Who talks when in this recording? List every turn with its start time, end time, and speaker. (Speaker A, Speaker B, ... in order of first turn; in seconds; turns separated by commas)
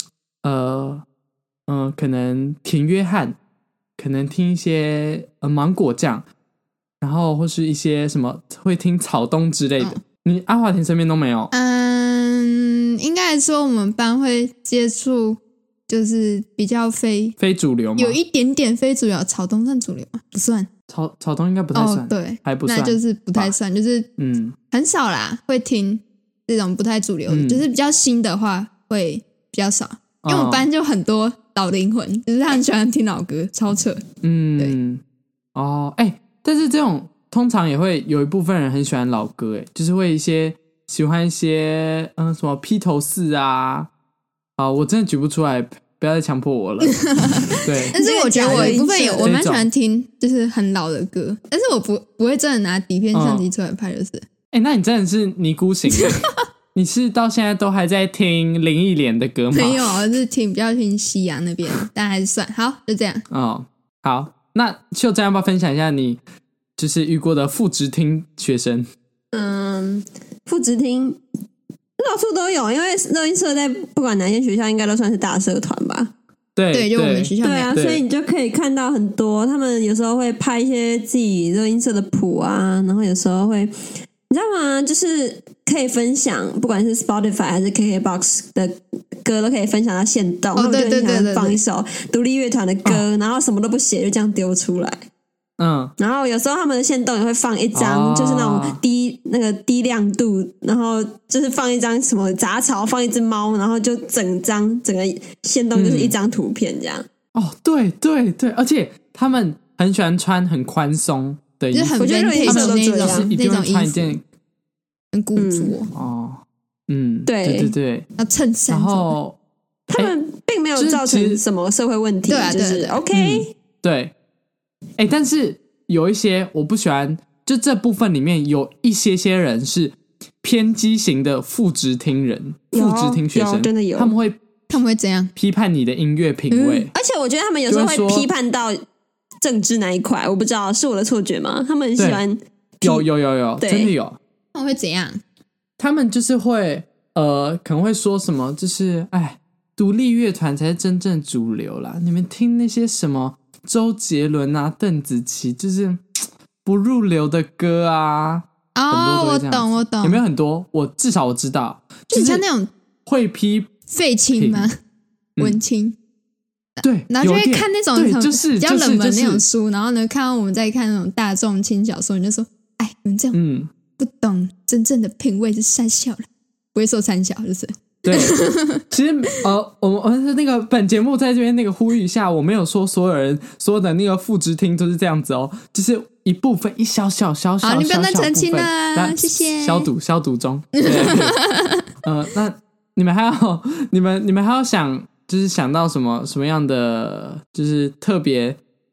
Speaker A: 0.4-1.0, Speaker A: 1.7-3.4, Speaker A: 4.0-6.2, Speaker A: 7.0-11.5, Speaker B: 11.5-17.4, Speaker A: 17.4-18.2, Speaker B: 18.0-20.7, Speaker A: 20.9-23.6, Speaker B: 21.7-24.1, Speaker A: 24.2-24.6, Speaker B: 24.7-34.0, Speaker A: 27.3-27.6, Speaker A: 30.2-30.7, Speaker A: 34.2-35.0, Speaker A: 35.5-43.9, Speaker A: 44.6-47.1, Speaker B: 46.8-54.2, Speaker A: 47.6-49.7, Speaker C: 47.7-49.3, Speaker A: 53.1-53.5, Speaker A: 54.5-56.2, Speaker A: 56.7-59.9, Speaker B: 59.5-63.2, Speaker A: 63.3-66.2, Speaker A: 66.8-68.9, Speaker C: 69.3-71.2, Speaker C: 72.0-76.1, Speaker A: 76.6-78.0, Speaker B: 76.7-77.8, Speaker C: 77.4-83.7, Speaker C: 84.3-95.0, Speaker B: 90.5-91.6, Speaker A: 95.6-95.9, Speaker C: 96.0-107.1, Speaker A: 97.8-98.8, Speaker A: 105.8-106.2, Speaker A: 107.3-114.2, Speaker B: 111.7-114.2, Speaker C: 112.0-113.3, Speaker B: 115.1-115.9, Speaker C: 115.4-115.8, Speaker A: 115.9-118.1, Speaker C: 117.3-117.7, Speaker B: 118.2-119.1, Speaker A: 118.7-119.4, Speaker C: 119.9-123.5, Speaker A: 120.8-121.4, Speaker B: 122.3-123.0, Speaker A: 123.1-124.1, Speaker A: 125.0-134.4, Speaker C: 132.7-134.1, Speaker B: 134.7-135.3, Speaker A: 135.4-136.9, Speaker B: 136.5-136.9, Speaker C: 136.9-138.8, Speaker A: 137.7-138.3, Speaker C: 139.4-143.1, Speaker A: 142.0-142.2, Speaker A: 142.8-144.2, Speaker C: 143.6-143.9, Speaker B: 144.5-145.2, Speaker A: 145.8-156.0, Speaker A: 156.7-162.4, Speaker B: 158.8-160.2, Speaker B: 162.1-162.7, Speaker A: 163.1-163.7, Speaker B: 163.9-164.8, Speaker A: 164.3-164.7, Speaker B: 165.4-166.0, Speaker B: 166.8-173.4, Speaker A: 166.8-169.4, Speaker A: 173.3-173.7, Speaker B: 174.0-176.2, Speaker B: 176.7-178.8, Speaker A: 178.1-178.4, Speaker A: 178.9-191.4, Speaker B: 187.6-189.9, Speaker B: 190.7-191.8, Speaker A: 192.0-198.6